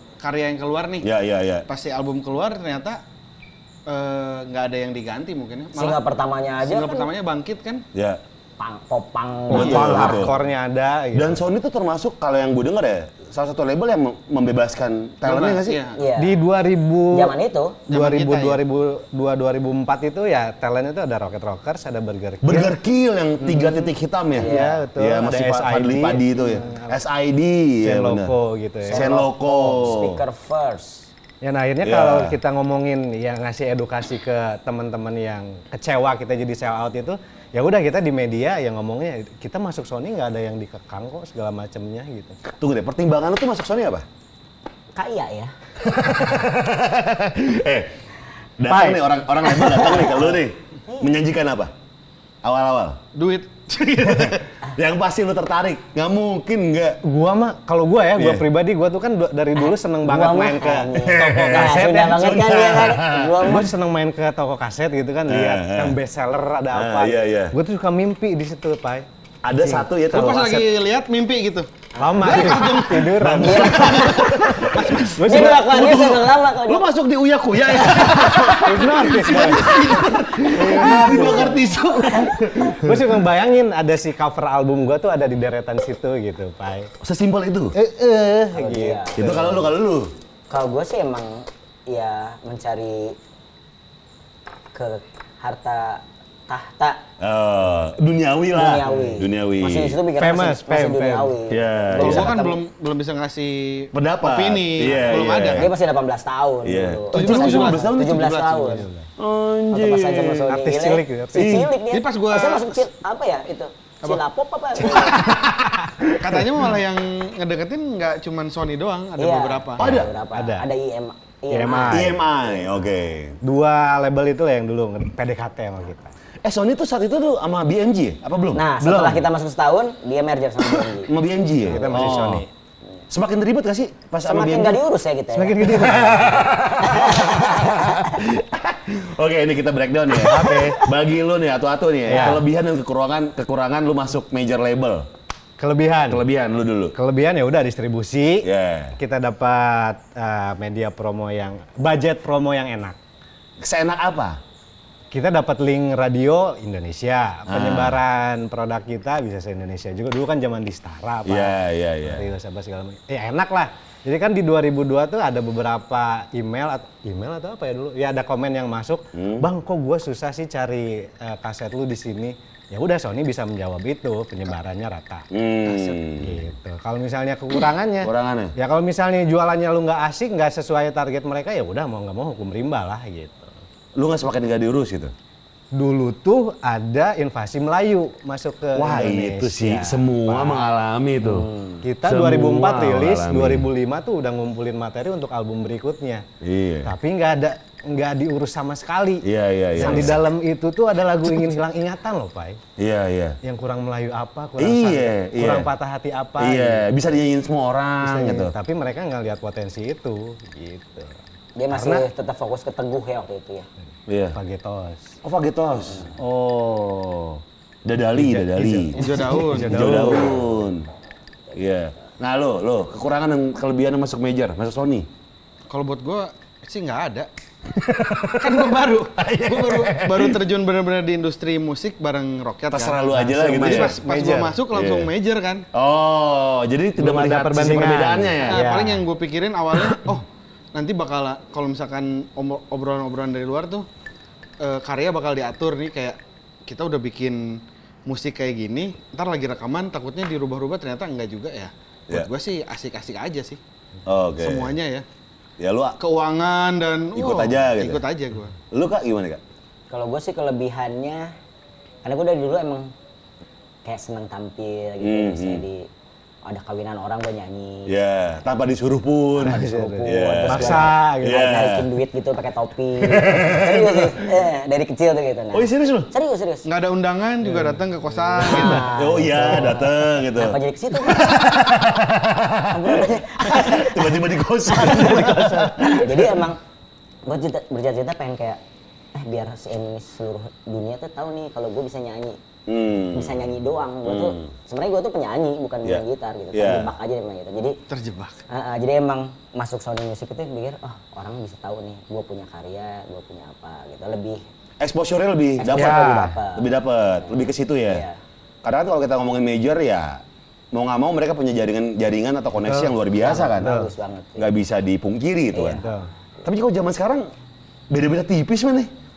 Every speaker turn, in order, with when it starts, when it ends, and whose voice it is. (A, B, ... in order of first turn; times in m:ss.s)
0:00.2-0:01.1 A
0:01.0-0:01.7 B
0:01.7-0:03.0 A
0:03.9-0:06.0 A
0:05.8-0:07.1 C
0:06.6-0:07.8 A
0:07.9-0:08.2 B
0:08.6-0:10.3 C
0:09.5-0:11.4 D
0:09.5-0:10.4 B
0:11.1-0:15.8 B
0:15.2-0:16.0 A
0:16.0-0:16.4 C
0:16.2-0:17.4 D
0:17.1-0:17.8 C
0:17.9-0:22.8 D
0:17.9-0:18.6 A
0:22.4-0:28.3 B
0:23.4-0:23.8 D
0:24.4-0:24.8 C
0:24.4-0:27.0 D
0:27.8-0:29.3 D
0:28.9-0:31.1 C
0:28.9-0:30.2 B
0:31.4-0:42.4 D
0:31.8-0:32.4 B
0:42.4-0:44.0 B
0:45.0-0:45.5 C
0:45.8-0:47.9 B
0:48.6-0:51.7 B
0:48.7-0:49.0 D
0:49.6-0:50.4 C
0:50.9-0:51.2 C
0:52.4-0:53.0 B
0:53.1-0:54.5 A
0:54.0-0:57.0 B
0:57.0-1:02.4 D
0:58.2-0:58.5 B
0:59.6-1:03.7 C
1:01.0-1:03.4 B
1:03.4-1:09.9 D
1:05.3-1:06.0 B
1:06.7-1:07.6 B
1:09.4-1:10.7 B
1:10.1-1:11.7 A
1:12.0-1:12.3 C
1:12.0-1:15.9 D
1:12.2-1:13.4 A
1:13.1-1:23.2 B
1:13.4-1:14.6 C
1:14.7-1:15.1 A
1:15.2-1:16.8 C
1:17.8-1:18.4 C
1:18.4-1:21.7 D
1:20.7-1:22.4 C
1:22.6-1:26.9 D
1:27.0-1:27.8 B
1:27.7-1:29.6 D
1:28.5-1:29.6 C
1:29.2-1:30.1 B
1:30.5-1:33.2 C
1:34.7-1:37.0 C
1:37.2-1:40.0 B
1:38.5-1:42.6 C
1:38.8-1:39.2 D
1:40.2-1:41.4 D
1:41.5-1:42.4 B
1:42.0-1:45.7 A
1:43.9-1:45.7 B
1:44.9-1:48.9 C
1:46.6-1:48.3 B
1:47.1-1:48.8 A
1:48.7-1:49.1 D
1:49.2-1:50.5 B
1:49.7-1:55.4 C
1:50.5-1:51.6 D
1:51.3-1:51.7 B
1:51.9-1:52.8 A
1:54.9-1:55.9 B
1:55.2-1:55.8 D
1:56.2-1:59.8 A
1:59.2-2:02.8 C
1:59.8-2:00.1 B
1:59.8-2:00.7 D
2:01.5-2:02.2 D
2:01.9-2:03.4 B
2:03.4-2:06.1 D
2:06.4-2:08.7 B
2:08.5-2:11.1 C
2:08.8-2:09.3 D
2:10.7-2:12.5 B
2:11.6-2:12.5 D
2:13.1-2:14.8 B
2:14.2-2:16.1 C
2:15.3-2:16.7 D
2:15.7-2:25.1 B
2:16.8-2:18.1 C
2:20.2-2:20.9 D
2:22.1-2:22.4 D
2:25.6-2:26.2 D
2:26.1-2:27.0 B
2:27.0-2:33.0 D
2:28.4-2:29.0 B
2:33.6-2:34.4 B
2:35.1-2:55.3 D
2:37.5-2:38.0 B
2:41.3-2:42.3 B
2:49.1-2:49.5 B
2:55.3-2:56.4 B
2:56.2-3:03.5 D
2:58.0-2:58.5 B
3:04.0-3:05.1 B
3:05.7-3:10.7 D
3:08.8-3:11.5 B
3:11.3-3:11.8 C
3:11.8-3:16.2 D
3:12.0-3:13.7 B
3:16.4-3:16.9 B
3:16.8-3:22.6 D
3:19.2-3:20.2 B
3:22.8-3:23.4 B
3:23.4-3:26.9 D
3:24.6-3:25.7 B
3:26.4-3:28.5 B
3:28.0-3:31.2 D
3:31.6-3:33.7 C
3:31.7-3:32.0 D
3:34.1-3:34.4 B
3:34.3-3:35.2 D
3:35.2-3:40.9 B
3:38.1-3:40.6 D
3:39.0-3:40.0 A
3:41.6-3:45.1 B
3:45.7-3:47.3 A
3:47.7-3:50.4 B
3:48.4-3:53.0 A
3:52.7-3:54.0 B
3:53.1-3:54.6 D
3:53.5-3:55.7 A
3:54.7-3:55.1 B
3:55.7-3:58.7 B
3:57.0-3:59.0 D
3:58.4-4:03.9 A
4:04.6-4:13.6 A
4:14.1-4:14.8 B
4:14.4-4:15.0 A
4:15.6-4:16.0 B
4:16.0-4:18.6 A
4:17.2-4:18.0 B
4:18.7-4:19.4 B
4:19.9-4:21.3 C
4:22.0-4:22.9 C
4:23.8-4:25.9 C
4:25.0-4:25.6 B
4:26.4-4:28.0 C
4:27.9-4:31.9 B
4:29.4-4:36.7 C
4:29.4-4:31.6 D
4:33.0-4:34.4 B
4:35.5-4:36.1 B
4:36.6-4:38.9 A
4:37.4-4:39.8 D
4:38.4-4:41.5 C
4:38.7-4:46.5 B
4:42.7-4:46.6 C
4:44.9-4:45.8 D
4:47.3-4:48.6 C
4:49.1-4:52.4 C
4:52.7-4:53.4 B
4:53.1-4:57.8 C
4:54.0-4:54.5 B
4:55.8-4:56.9 B
4:57.9-4:58.4 A
4:58.5-5:04.4 C
5:04.8-5:08.0 B
5:05.6-5:06.7 C
5:05.7-5:06.4 D
5:07.8-5:08.2 C
5:08.6-5:13.8 B
5:12.6-5:13.0 D
5:13.1-5:14.5 C
5:13.6-5:13.9 D
5:14.4-5:15.8 B
5:15.5-5:16.0 C
5:15.8-5:16.1 D
5:16.4-5:17.3 B
5:17.9-5:18.9 B